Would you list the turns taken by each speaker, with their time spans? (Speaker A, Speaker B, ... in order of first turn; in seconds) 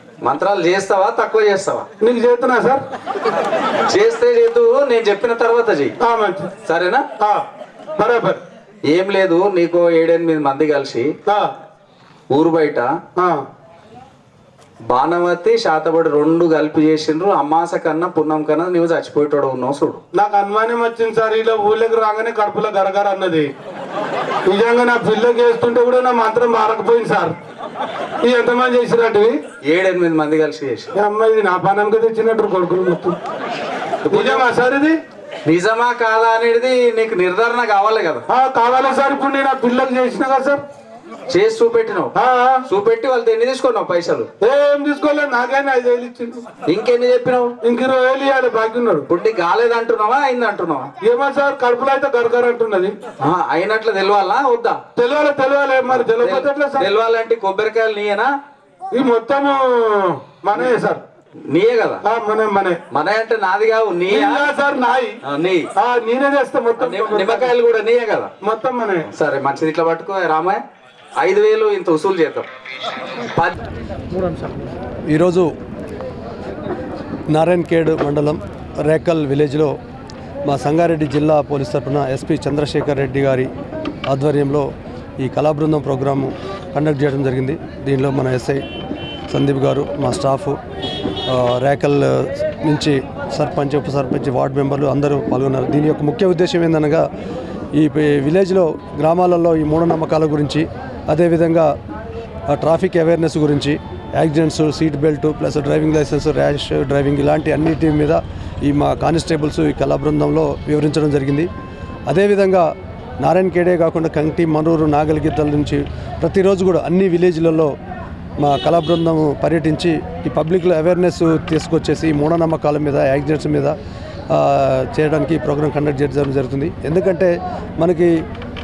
Speaker A: 0.2-1.9, 3.9-6.0, 6.6-7.0, 8.9-11.1, 12.3-12.9, 14.9-20.0, 29.6-30.9, 34.1-34.5, 35.5-38.2, 41.3-42.1, 42.7-44.3, 46.7-47.5, 49.1-50.9, 53.2-54.8, 55.9-58.3, 61.5-62.0, 62.9-64.5, 65.2-65.6, 66.8-68.3, 69.1-70.6, 71.2-72.5
Speaker B: 2.0-2.8, 6.0-6.5, 7.2-7.4, 8.0-8.4, 13.2-13.4, 20.1-23.5, 24.5-27.4, 28.2-29.4, 30.9-33.2, 34.1-35.0, 38.3-40.6, 42.2-42.6, 44.4-46.4, 47.6-49.1, 51.0-53.0, 55.0-56.9, 58.9-61.0, 62.0-62.8, 64.1-65.2, 65.8-67.5, 68.4-69.1
Speaker C: 75.1-75.5, 77.3-79.8, 80.5-83.5, 84.1-84.7, 85.2-88.6, 89.3-90.6, 91.3-97.1, 97.8-101.7, 102.5-111.5, 112.1-112.7, 113.2-117.7, 118.4-123.8, 124.3-128.1